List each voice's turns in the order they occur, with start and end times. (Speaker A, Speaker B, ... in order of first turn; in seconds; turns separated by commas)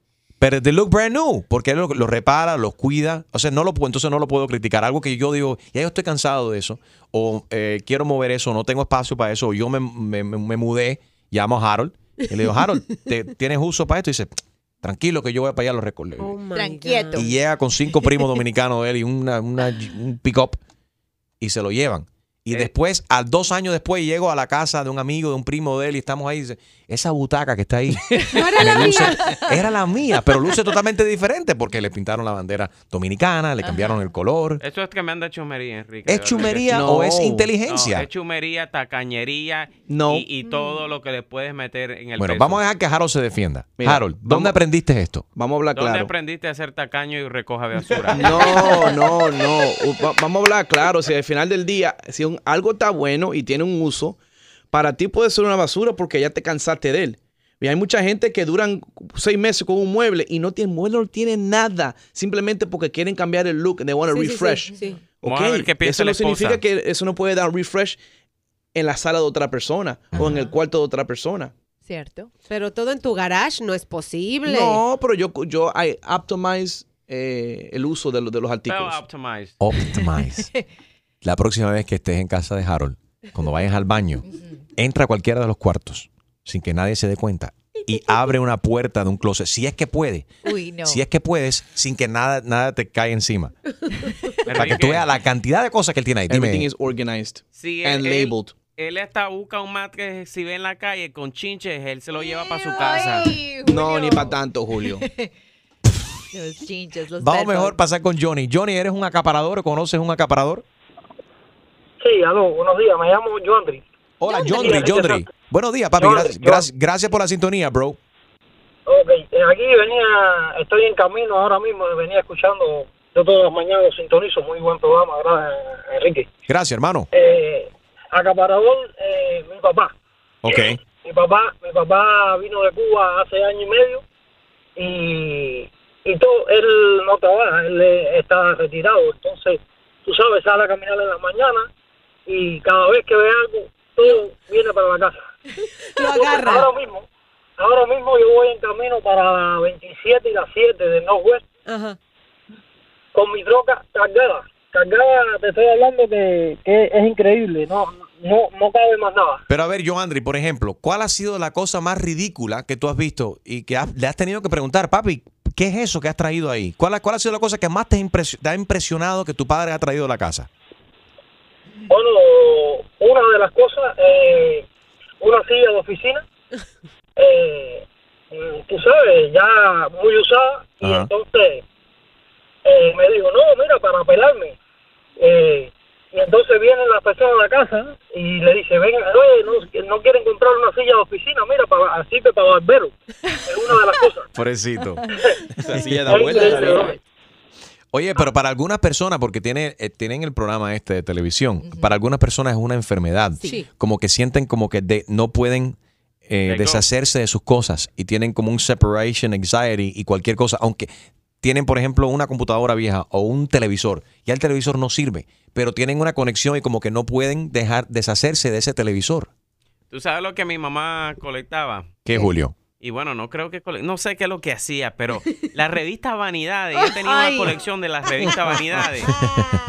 Speaker A: 0.4-16.4, Speaker B: 16.2-17.2, Speaker C: 16.5-17.4, Speaker A: 17.1-20.6, Speaker A: 21.4-34.6, Speaker C: 28.1-29.6, Speaker B: 28.3-29.2, Speaker C: 33.6-34.0, Speaker D: 34.6-36.9, Speaker A: 36.1-38.1, Speaker E: 36.7-37.5, Speaker D: 37.7-42.6, Speaker E: 39.9-40.2, Speaker B: 40.4-40.8, Speaker A: 42.2-45.2, Speaker E: 43.8-44.6, Speaker E: 45.4-46.1, Speaker D: 45.7-49.0, Speaker E: 48.1-54.2, Speaker E: 54.7-68.0, Speaker B: 64.1-65.0, Speaker C: 64.7-65.0, Speaker D: 65.2-66.6, Speaker E: 68.8-71.5, Speaker C: 70.2-70.5, Speaker C: 71.8-72.3, Speaker B: 72.5-74.8, Speaker E: 74.5-79.0, Speaker D: 78.7-79.6, Speaker A: 79.6-80.5, Speaker C: 79.9-80.6, Speaker A: 81.2-84.2, Speaker A: 84.8-90.3, Speaker C: 90.4-91.0, Speaker A: 90.8-93.5, Speaker D: 94.5-95.1, Speaker A: 94.5-96.7, Speaker E: 96.3-98.5, Speaker D: 97.6-103.3, Speaker C: 102.2-105.3, Speaker E: 103.7-105.0, Speaker C: 106.3-107.8, Speaker A: 107.2-110.6, Speaker F: 112.0-115.2, Speaker A: 114.2-118.0, Speaker F: 116.0-116.7, Speaker F: 118.9-126.3, Speaker A: 126.5-127.1, Speaker F: 127.1-129.9, Speaker A: 130.4-130.8, Speaker F: 130.5-134.0, Speaker F: 134.8-141.7, Speaker F: 142.3-145.2, Speaker B: 146.0-146.7, Speaker F: 146.0-147.1, Speaker F: 147.6-151.4, Speaker B: 151.7-152.0, Speaker F: 153.1-159.4, Speaker A: 159.5-170.5, Speaker F: 171.9-174.7, Speaker F: 175.2-176.2, Speaker F: 177.2-181.6, Speaker A: 180.8-181.1, Speaker F: 182.7-184.6, Speaker F: 185.2-192.9, Speaker F: 193.5-194.3, Speaker A: 194.3-195.0, Speaker A: 195.7-196.5, Speaker E: 195.7-196.9, Speaker F: 196.1-197.0, Speaker A: 197.9-210.9, Speaker C: 201.6-201.9, Speaker D: 206.5-206.8, Speaker A: 211.4-219.3, Speaker D: 219.9-222.0, Speaker A: 222.1-222.6, Speaker D: 222.8-229.1, Speaker B: 227.1-227.5, Speaker B: 229.1-229.6